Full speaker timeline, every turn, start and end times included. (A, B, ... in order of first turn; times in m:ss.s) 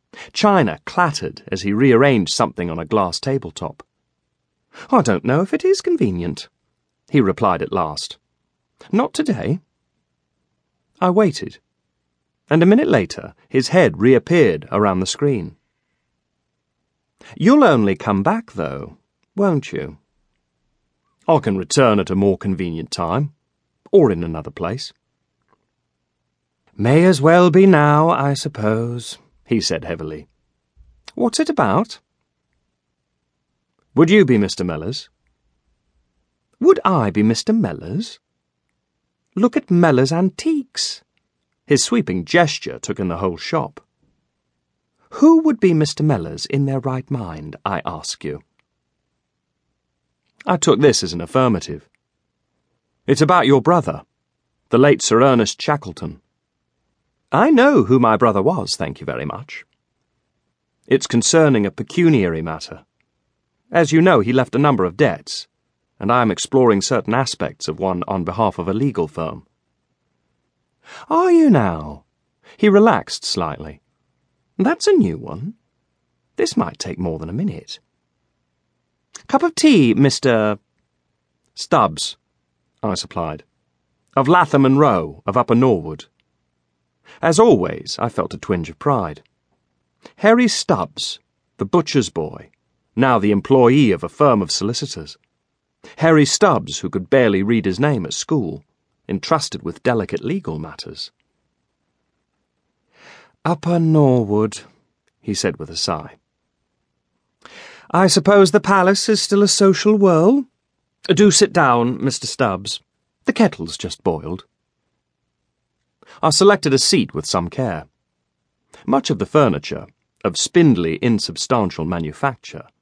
0:00.3-0:03.8 A
0:04.9-0:06.5 A
0:07.1-0:08.2 A
0:08.9-0:09.6 A
0:11.0-0:11.6 A
0:12.5-0:15.6 A
0:17.4-0:20.0 A
0:21.3-0:23.3 A
0:23.9-0:24.9 A
0:26.8-0:30.3 A
0:31.2-0:32.0 A
0:33.9-0:35.1 A
0:36.6-0:38.2 A
0:39.4-0:41.0 A
0:41.7-0:43.8 A
0:45.1-0:48.4 A
0:50.5-0:51.9 A
0:53.1-0:54.0 A
0:54.7-0:56.2 A
0:57.3-0:59.6 A
1:00.9-1:02.8 A
1:03.7-1:05.5 A
1:06.0-1:09.4 A
1:11.1-1:12.0 A
1:12.6-1:13.8 A
1:14.6-1:15.5 A
1:16.4-1:17.8 A
1:19.3-1:20.6 A
1:21.5-1:22.2 A
1:22.8-1:23.4 A
1:24.2-1:26.1 A
1:27.2-1:29.2 A
1:30.2-1:35.2 A
1:36.0-1:41.1 A
1:43.4-1:44.6 A
1:45.2-1:46.2 A
1:47.9-1:50.4 A
1:51.1-1:54.4 A
1:56.2-1:57.9 A
1:58.9-2:02.7 A